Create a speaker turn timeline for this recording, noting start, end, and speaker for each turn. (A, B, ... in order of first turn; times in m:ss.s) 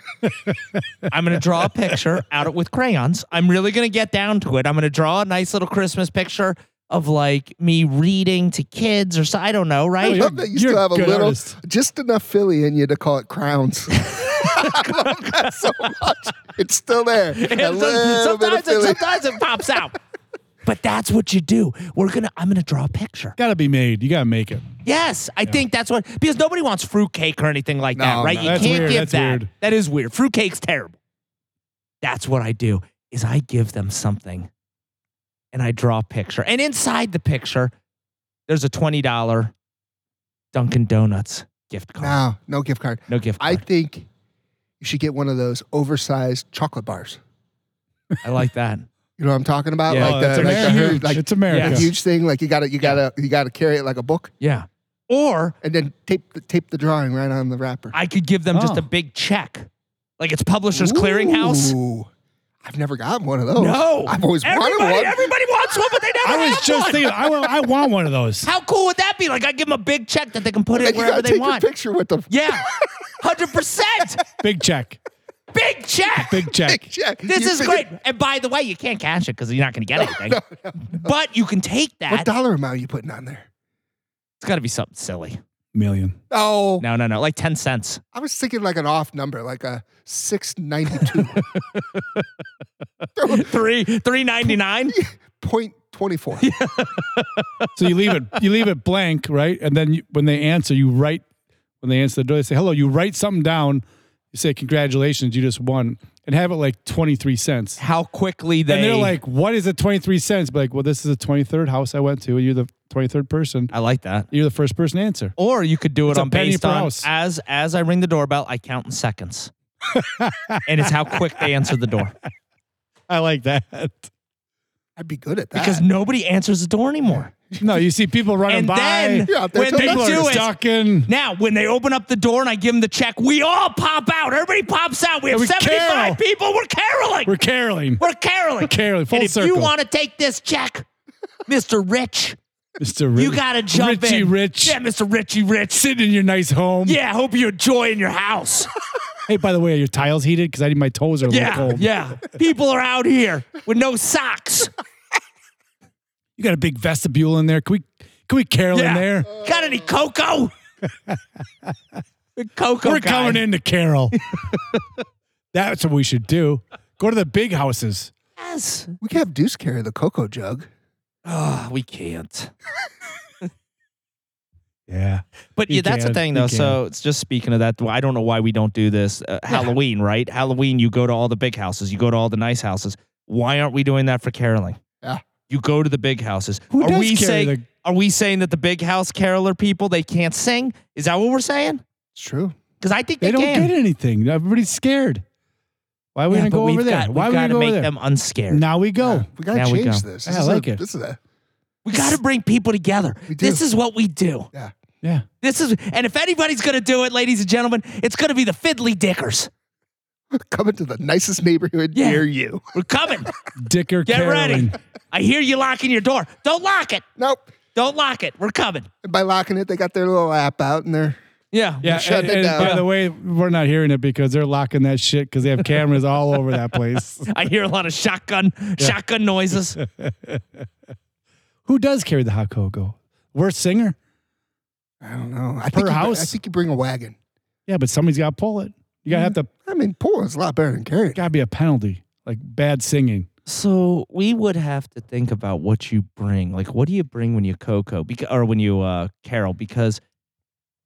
0:00.2-0:01.1 A
0:01.1-0:10.3 B
0:10.0-0:11.6 A
0:10.0-0:19.2 C
0:14.0-0:15.4 B
0:17.3-0:20.0 B
0:20.6-0:23.4 B
0:23.4-0:24.7 A
0:24.8-0:31.0 B
0:28.0-0:29.0 C
0:28.4-0:29.5 A
0:32.0-0:34.5 B
0:35.5-0:37.7 B
0:38.5-0:39.5 B
0:40.5-0:42.2 B
0:42.0-0:44.1 C
0:43.1-0:43.6 B
0:44.8-0:47.2 C
0:48.2-0:48.9 B
0:49.2-0:54.3 C
0:49.9-0:51.9 B
0:49.9-0:51.9 A
0:54.4-0:55.6 B
0:55.6-0:58.0 C
0:57.9-0:59.7 B
0:58.5-0:58.8 A
1:00.2-1:01.8 B
1:00.7-1:02.1 C
1:02.6-1:05.3 C
1:03.6-1:07.2 B
1:06.2-1:08.5 A
1:08.4-1:11.7 B
1:10.8-1:12.6 C
1:12.3-1:12.6 B
1:13.2-1:14.2 B
1:14.4-1:15.0 A
1:15.5-1:16.4 B
1:16.2-1:16.8 A
1:16.5-1:17.9 C
1:17.3-1:22.3 B
1:20.1-1:21.0 C
1:22.1-1:23.5 C
1:24.4-1:25.4 B
1:25.7-1:26.2 A
1:26.3-1:26.8 C
1:26.8-1:28.0 B
1:28.1-1:31.4 C
1:31.1-1:32.2 B
1:33.2-1:33.5 C
1:33.3-1:35.0 B
1:34.9-1:36.5 C
1:36.4-1:37.7 B
1:37.8-1:41.2 A
1:41.8-1:47.8 A
1:47.8-1:49.2 B
1:48.7-1:53.7 A
1:53.7-1:54.3 B
1:54.3-1:55.3 A
1:55.4-1:59.5 B
1:56.1-1:57.1 A
1:59.9-2:01.6 A
2:00.7-2:02.1 B
2:03.1-2:04.1 A
2:05.0-2:05.8 C
2:05.6-2:07.3 B
2:07.4-2:07.8 C
2:07.6-2:11.1 A
2:08.5-2:10.6 B
2:09.3-2:10.4 C
2:11.1-2:17.4 B
2:15.3-2:16.2 A
2:17.3-2:18.0 A
2:18.0-2:20.8 B
2:18.6-2:19.7 A
2:21.5-2:22.4 B
2:22.8-2:24.8 A
2:23.2-2:25.8 B
2:25.8-2:27.0 A
2:26.8-2:28.7 B
2:29.3-2:31.9 A
2:31.3-2:34.7 B
2:36.4-2:39.3 A
2:38.7-2:40.5 B
2:41.1-2:41.8 A
2:42.4-2:43.4 B
2:42.8-2:44.8 A
2:45.5-2:48.1 A
2:48.4-2:49.0 B
2:49.0-2:50.7 C
2:51.3-2:52.5 B
2:54.9-2:56.8 A
2:55.6-3:04.8 B
3:05.5-3:11.8 B
3:06.7-3:07.7 A
3:12.2-3:12.6 C
3:12.8-3:13.7 B
3:13.2-3:15.2 A
3:16.2-3:17.9 A
3:16.3-3:18.6 B
3:18.5-3:19.3 A
3:19.0-3:21.2 C
3:19.5-3:20.0 B
3:20.3-3:20.8 A
3:21.8-3:24.5 B
3:23.3-3:23.6 C
3:25.4-3:29.5 B
3:30.3-3:32.7 C
3:32.0-3:33.3 B
3:33.6-3:34.8 A
3:34.1-3:37.0 B
3:37.2-3:37.5 C
3:37.8-3:38.9 B
3:39.0-3:41.2 C
3:41.5-3:42.0 B
3:41.8-3:47.3 A
3:41.8-3:42.8 C
3:42.5-3:42.9 B
3:47.3-3:49.8 B
3:49.8-3:50.6 A
3:51.7-3:54.0 A
3:55.0-3:57.2 C
3:55.7-3:56.4 A
3:57.7-3:59.5 A
3:59.1-4:01.2 C
4:01.2-4:03.3 A
4:03.5-4:10.0 B